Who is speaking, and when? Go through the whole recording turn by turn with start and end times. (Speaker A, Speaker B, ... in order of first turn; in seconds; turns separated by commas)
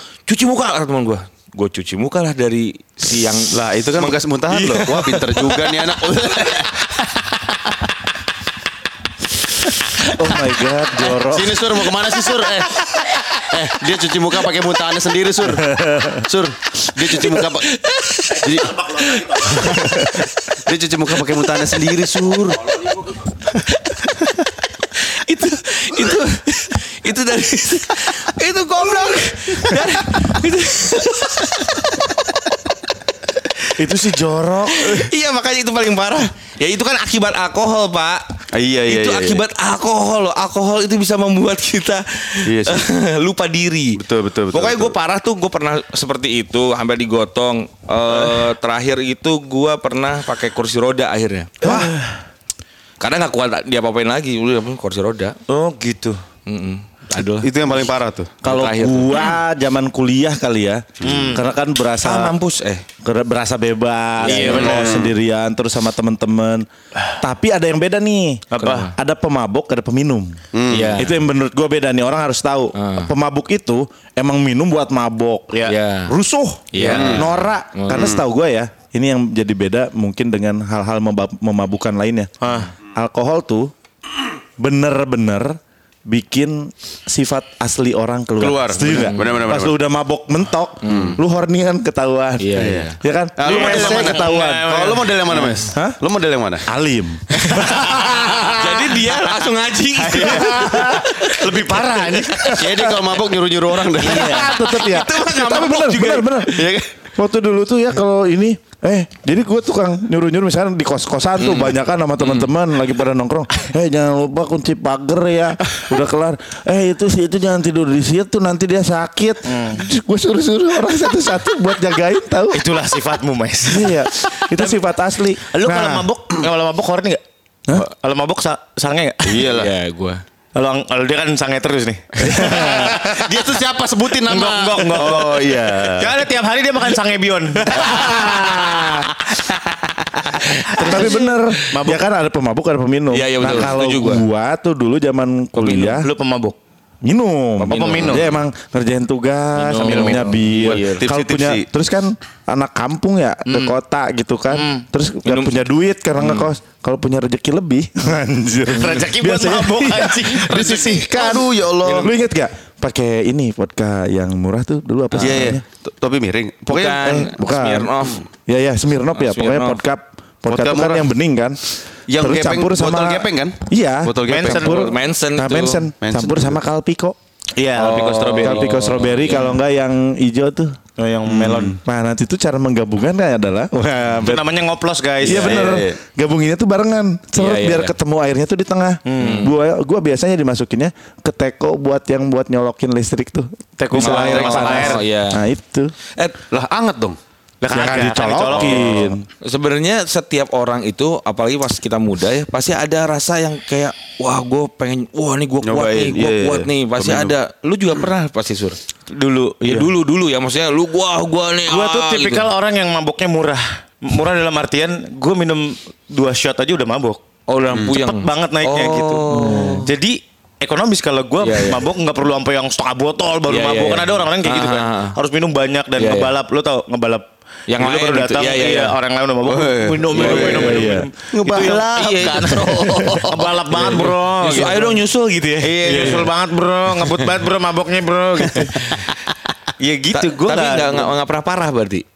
Speaker A: 0.3-5.4, Speaker B: 3.5-7.0, Speaker C: 10.0-11.6, Speaker B: 11.3-17.7, Speaker C: 15.5-16.3, Speaker A: 17.0-20.2, Speaker B: 18.4-18.9, Speaker D: 19.1-19.6, Speaker B: 19.6-20.0, Speaker C: 19.8-20.1, Speaker B: 20.5-23.0, Speaker A: 21.1-21.6, Speaker A: 24.9-32.2, Speaker C: 33.8-35.1, Speaker A: 34.7-38.2, Speaker B: 38.5-39.4, Speaker A: 38.9-44.0, Speaker B: 42.5-42.9, Speaker B: 44.0-45.0, Speaker A: 44.5-51.8, Speaker C: 51.6-52.0, Speaker D: 51.6-52.2, Speaker A: 53.0-55.4, Speaker D: 55.5-56.2, Speaker A: 56.5-57.9, Speaker B: 57.4-58.4, Speaker A: 58.4-59.2, Speaker C: 58.4-62.4, Speaker D: 61.0-61.5, Speaker A: 62.0-62.8, Speaker C: 63.0-66.7, Speaker D: 64.2-65.1, Speaker A: 64.3-64.8, Speaker B: 64.4-65.0, Speaker C: 67.2-70.4, Speaker D: 68.5-68.9, Speaker A: 68.6-68.9, Speaker B: 70.5-71.0, Speaker A: 70.7-71.2, Speaker C: 71.0-82.3, Speaker A: 72.8-73.1, Speaker D: 75.5-75.8, Speaker A: 75.7-76.1, Speaker A: 76.7-78.1, Speaker D: 76.7-77.2, Speaker B: 76.9-77.3, Speaker B: 77.9-78.2, Speaker D: 82.4-82.7, Speaker C: 83.0-83.7, Speaker C: 84.6-94.7, Speaker B: 88.4-89.8, Speaker A: 88.8-89.5, Speaker A: 90.8-91.2, Speaker B: 90.8-91.2, Speaker A: 92.4-93.0, Speaker B: 92.5-96.7, Speaker D: 93.4-95.2, Speaker A: 95.3-95.7, Speaker C: 96.7-99.0, Speaker A: 97.4-97.8, Speaker B: 97.4-98.6, Speaker A: 98.6-101.7, Speaker B: 100.0-100.9, Speaker C: 100.2-101.1, Speaker D: 101.2-102.6, Speaker C: 102.3-103.0, Speaker B: 102.5-104.5, Speaker D: 104.0-104.5, Speaker C: 104.0-122.6, Speaker A: 104.1-106.6, Speaker B: 106.5-106.9, Speaker A: 111.4-112.5, Speaker D: 119.5-119.8, Speaker D: 122.5-124.8, Speaker C: 123.7-126.1, Speaker D: 125.5-129.5, Speaker B: 129.2-129.7, Speaker A: 129.4-130.2, Speaker D: 130.6-133.3, Speaker B: 132.3-136.1, Speaker C: 132.4-132.9, Speaker D: 134.2-138.2, Speaker B: 137.8-138.1, Speaker C: 137.8-139.1, Speaker D: 139.2-139.8, Speaker D: 140.3-142.0, Speaker A: 140.6-141.0, Speaker C: 140.8-146.1, Speaker A: 143.1-144.2, Speaker A: 145.5-146.0, Speaker D: 146.0-146.6, Speaker C: 147.0-165.6, Speaker D: 147.6-148.3, Speaker A: 147.7-148.4, Speaker A: 149.6-151.0, Speaker D: 149.8-150.3, Speaker B: 150.6-151.6, Speaker D: 153.5-153.8, Speaker D: 154.5-154.8, Speaker A: 155.2-155.6, Speaker A: 156.2-156.5, Speaker D: 158.7-161.5, Speaker B: 160.4-162.2, Speaker A: 165.1-165.6, Speaker B: 165.2-167.2, Speaker A: 166.7-168.3, Speaker C: 167.0-171.6, Speaker A: 169.2-169.8, Speaker B: 170.5-171.1, Speaker B: 172.1-174.8, Speaker C: 172.2-177.2, Speaker D: 174.2-174.8, Speaker A: 174.5-175.9, Speaker B: 176.0-176.6, Speaker D: 177.6-178.7, Speaker A: 177.8-179.5, Speaker C: 177.9-180.8, Speaker D: 181.0-181.8, Speaker B: 181.5-181.7, Speaker C: 181.6-184.5, Speaker D: 184.2-185.8, Speaker C: 185.2-195.9, Speaker B: 185.2-186.0, Speaker A: 187.4-187.9, Speaker D: 189.1-189.5, Speaker A: 189.2-189.5, Speaker D: 193.8-195.0, Speaker A: 194.0-195.4, Speaker A: 196.2-196.4, Speaker B: 196.5-197.2, Speaker D: 197.6-199.2, Speaker C: 197.7-199.2, Speaker A: 199.4-208.8, Speaker B: 205.6-207.3, Speaker D: 209.1-209.9, Speaker A: 209.6-212.5, Speaker D: 211.7-217.2, Speaker A: 217.5-219.9, Speaker B: 217.7-218.0, Speaker D: 217.7-219.2, Speaker C: 219.3-219.9, Speaker D: 219.8-235.0, Speaker A: 221.4-221.9, Speaker A: 223.5-225.2, Speaker A: 226.0-226.4, Speaker A: 227.7-229.0, Speaker B: 229.4-234.0, Speaker A: 230.1-231.0, Speaker C: 230.2-231.1, Speaker A: 231.5-233.0, Speaker C: 232.7-233.2, Speaker A: 233.7-236.3, Speaker D: 235.6-238.8, Speaker B: 235.8-236.3, Speaker D: 239.8-241.1, Speaker A: 240.1-242.0